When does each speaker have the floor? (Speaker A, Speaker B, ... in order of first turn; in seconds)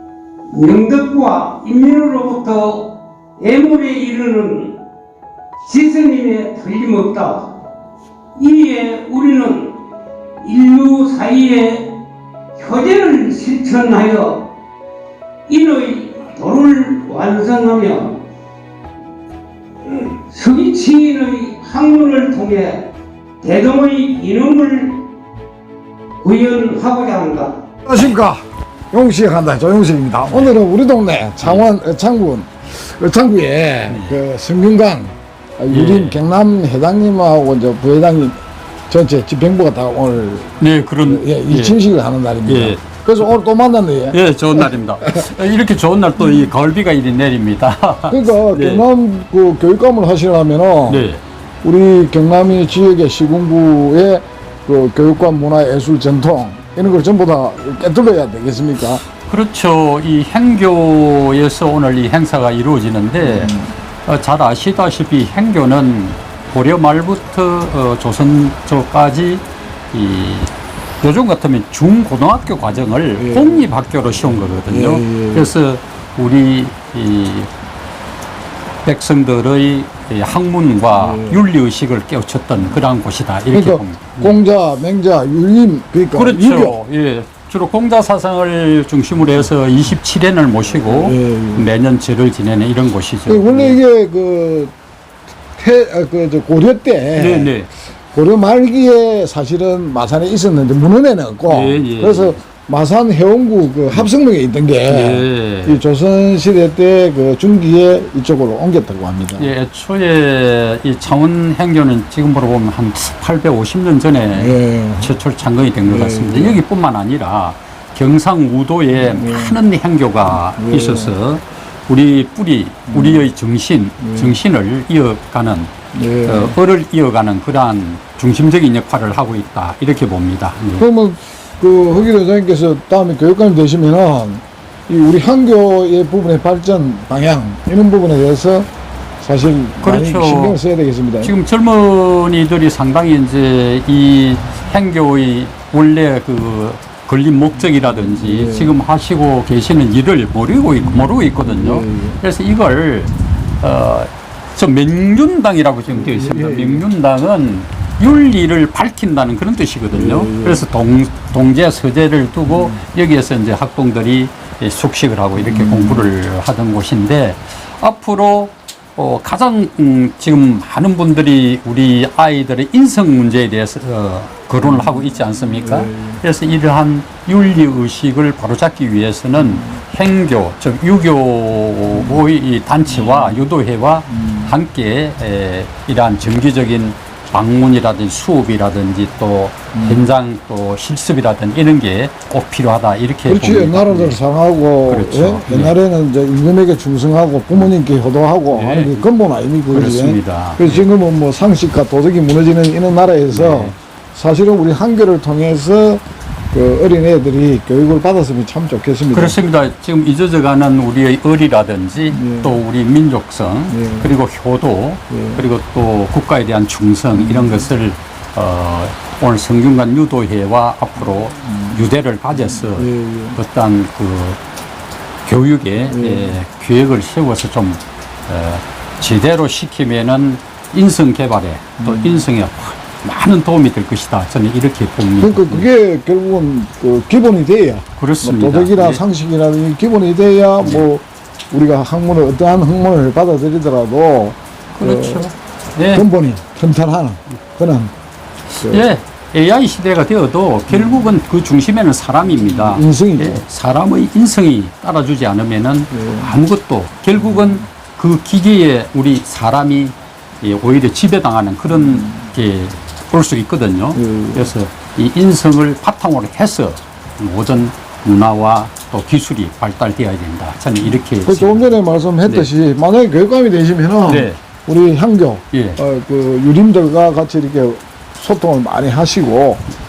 Speaker A: 0.5-4.7, 5.6-7.5, 8.3-9.7, 10.4-11.9, 12.6-14.4, 15.5-18.1, 19.8-22.8, 23.4-25.0, 26.2-27.5
Speaker B: 27.9-40.5, 41.0-45.2, 48.1-51.1, 51.6-59.0, 63.2-63.7, 73.2-73.7, 74.5-75.5, 80.9-81.4, 83.5-86.8, 90.7-91.7, 93.3-94.7, 95.6-97.5, 98.1-109.5, 114.3-115.1, 115.8-116.6, 118.9-119.6, 120.5-121.2, 122.9-123.3, 124.0-124.4, 125.9-126.6, 130.8-138.7, 139.2-141.3, 147.9-148.7, 150.8-152.2, 155.9-156.8, 159.9-160.6, 162.5-162.8, 165.4-166.1, 174.6-176.2, 179.3-179.7, 181.9-182.2, 182.9-183.4, 184.1-184.5, 189.7-190.1, 193.3-209.4, 212.1-212.6, 213.7-214.1, 215.1-215.4, 217.1-217.7, 221.0-223.4, 225.8-226.4, 231.8-232.3, 235.2-245.3, 245.9-247.9, 248.5-248.9, 250.7-251.2, 252.3-253.4, 255.9-256.3, 257.2-257.6, 261.7-262.3, 263.9-264.5, 271.2-279.6
Speaker C: 33.9-34.2, 35.7-36.2, 40.6-41.8, 42.5-42.8, 44.1-48.8, 50.9-51.2, 59.1-63.5, 64.0-77.5, 78.8-84.4, 86.1-93.8, 97.1-97.7, 101.5-102.3, 104.8-105.8, 109.4-125.7, 126.2-130.8, 139.8-140.6, 141.2-194.2, 194.8-195.8, 198.5-199.1, 199.7-200.9, 203.3-203.8, 209.1-224.4, 225.2-235.7, 238.0-239.0, 244.7-246.1, 248.7-271.7, 274.1-274.4, 275.5-275.8